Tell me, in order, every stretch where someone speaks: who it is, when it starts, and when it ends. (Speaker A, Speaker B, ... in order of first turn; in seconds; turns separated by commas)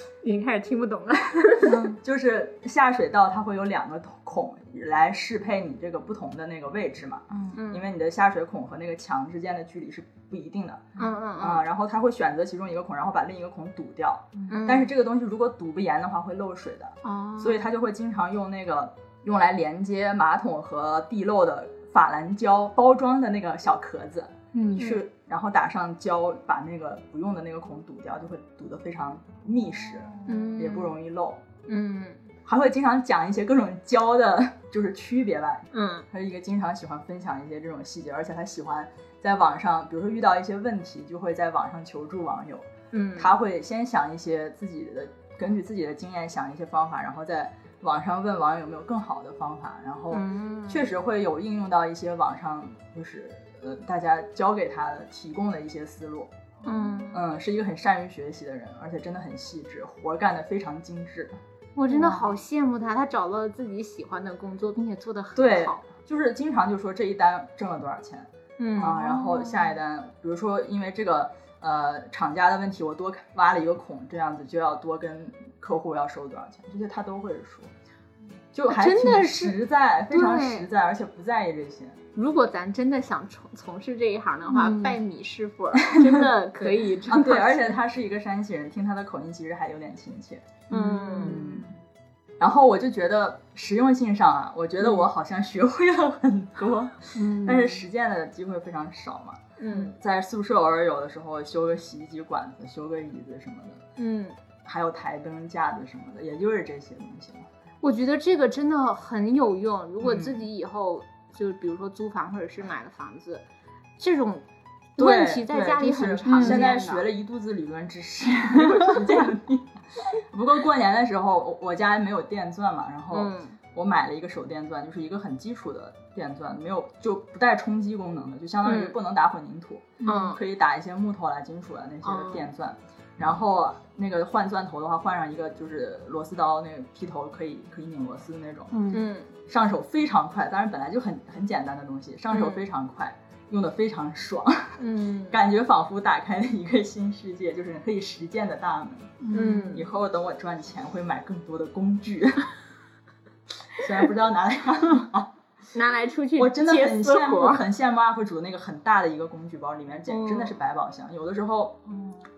Speaker A: 0.2-1.8, Speaker B: 1.7-31.4, Speaker C: 1.7-1.9, Speaker A: 7.5-7.9, Speaker A: 11.0-11.6, Speaker A: 14.5-14.9, Speaker A: 17.0-17.6, Speaker C: 24.5-25.0, Speaker A: 30.3-30.9, Speaker A: 31.7-32.3, Speaker B: 32.5-56.3, Speaker A: 35.7-36.1, Speaker A: 42.9-43.3, Speaker A: 50.1-50.8, Speaker A: 56.6-57.2, Speaker B: 57.1-61.4, Speaker A: 61.8-65.8, Speaker C: 61.9-62.2, Speaker B: 65.3-77.7, Speaker A: 68.6-69.5, Speaker B: 78.5-82.0, Speaker A: 78.7-79.6, Speaker A: 80.1-80.7, Speaker A: 82.2-87.7, Speaker C: 84.5-85.0, Speaker B: 85.8-90.6, Speaker A: 90.7-91.4, Speaker C: 90.7-91.7, Speaker B: 91.2-91.7, Speaker B: 92.4-103.8, Speaker C: 97.2-97.8, Speaker A: 99.6-100.0, Speaker A: 104.0-104.4, Speaker B: 104.7-107.5, Speaker A: 107.8-113.5, Speaker B: 110.0-110.4, Speaker A: 114.0-117.1, Speaker B: 115.0-138.7, Speaker C: 116.3-116.7, Speaker A: 123.1-123.6, Speaker A: 128.7-129.0, Speaker A: 130.0-130.4, Speaker A: 132.0-132.5, Speaker C: 138.7-139.1, Speaker A: 138.9-139.3, Speaker B: 139.5-149.2, Speaker A: 142.3-142.6, Speaker A: 144.8-145.4, Speaker C: 149.2-149.8, Speaker A: 149.3-149.9, Speaker B: 149.7-152.6, Speaker B: 153.8-155.3, Speaker A: 155.7-157.6, Speaker B: 156.4-161.8, Speaker A: 160.1-160.6